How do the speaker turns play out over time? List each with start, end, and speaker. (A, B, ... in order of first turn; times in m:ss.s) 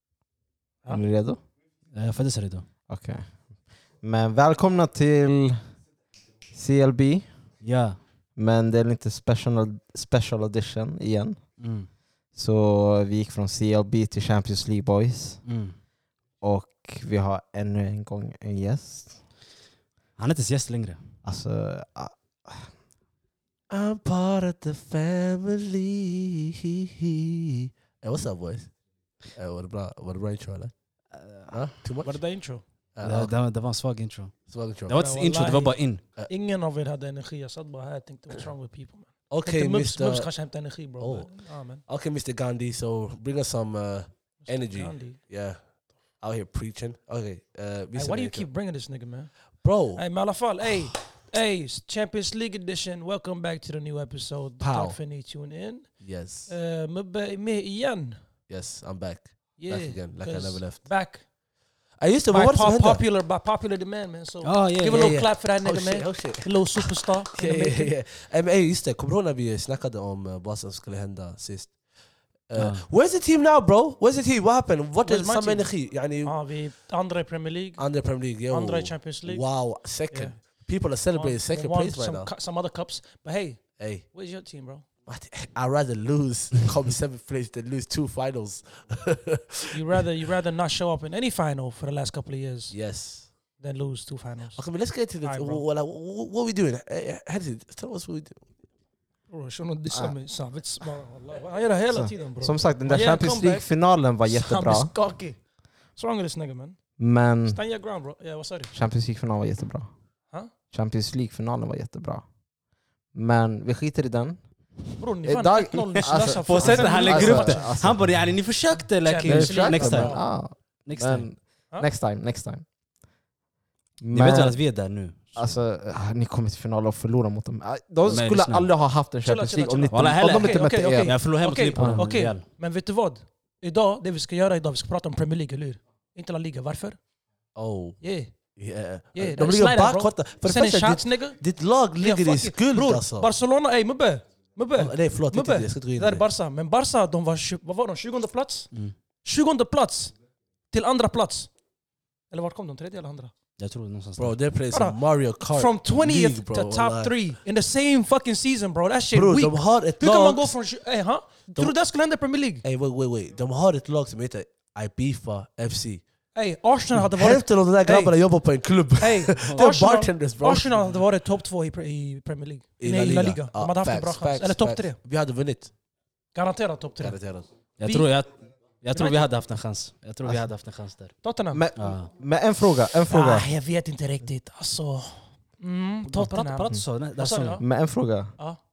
0:00.9-0:01.4 A
0:01.9-0:02.7 B
0:02.9-0:03.5 A
0:04.0-0:05.7 A
0:06.5-0:07.3 A
0:07.6-0:08.0 B
0:08.4-0:11.5 A
0:11.6-0:11.9 B
0:12.3-0:15.4 A
0:15.4-0:15.8 B
0:16.4-0:19.2 A
0:20.2-0:21.0 B
0:21.2-0:22.7 A
0:23.7-0:28.7 C
0:29.3-0:30.7 C
0:31.1-0:31.7 B
0:31.5-0:32.2 C
0:32.0-0:32.6 D
0:32.9-0:33.3 C
0:33.0-0:36.0 B
0:34.5-0:35.0 C
0:34.9-0:41.8 D
0:39.3-0:40.3 C
0:41.0-0:41.3 C
0:41.8-0:48.5 C
0:44.4-0:45.2 D
0:47.9-0:58.2 D
0:49.6-0:50.0 C
0:54.6-0:55.0 C
0:56.0-0:56.5 C
0:58.5-1:00.9 C
0:59.6-1:01.2 D
1:02.0-1:03.0 C
1:02.3-1:07.9 D
1:04.4-1:05.2 B
1:04.9-1:11.8 C
1:12.5-1:16.4 C
1:12.6-1:12.8 B
1:15.0-1:24.8 D
1:17.8-1:22.3 C
1:23.8-1:24.0 C
1:25.0-1:29.8 C
1:29.7-1:32.8 D
1:32.7-1:33.3 C
1:33.6-1:35.6 D
1:34.5-1:38.4 C
1:39.3-1:43.7 D
1:41.9-1:44.9 A
1:44.2-1:45.4 D
1:45.9-1:46.8 D
1:47.0-1:47.6 A
1:47.5-1:48.7 D
1:48.7-1:49.9 A
1:50.7-1:52.2 A
1:53.1-1:54.4 A
1:55.0-1:57.7 D
1:55.2-1:58.2 A
1:56.1-2:00.2 B
1:58.8-2:00.2 D
1:59.2-2:02.6 A
2:00.8-2:01.3 B
2:04.0-2:04.6 A
2:04.1-2:05.6 B
2:05.3-2:11.2 A
2:08.0-2:08.7 B
2:09.2-2:17.0 D
2:09.9-2:12.4 B
2:11.7-2:12.0 A
2:17.5-2:18.0 C
2:18.0-2:18.3 D
2:18.6-2:23.3 C
2:19.1-2:21.4 D
2:21.9-2:28.7 D
2:24.8-2:26.2 C
2:29.2-2:30.1 D
2:30.7-2:31.5 D
2:32.3-2:33.3 D
2:33.6-2:34.4 B
2:34.2-2:37.2 C
2:34.7-2:42.6 D
2:39.1-2:40.5 C
2:42.6-2:46.0 C
2:46.3-2:48.2 D
2:47.0-2:50.9 C
2:49.0-2:55.0 D
2:49.4-2:49.6 B
2:52.8-2:55.7 C
2:56.3-2:57.2 D
2:57.0-2:57.5 C
2:57.8-3:01.2 B
2:57.8-2:58.1 D
2:58.9-2:59.3 D
3:01.2-3:01.6 D
3:01.5-3:03.5 A
3:01.8-3:02.1 B
3:03.1-3:07.6 D
3:06.1-3:07.6 B
3:07.6-3:08.4 A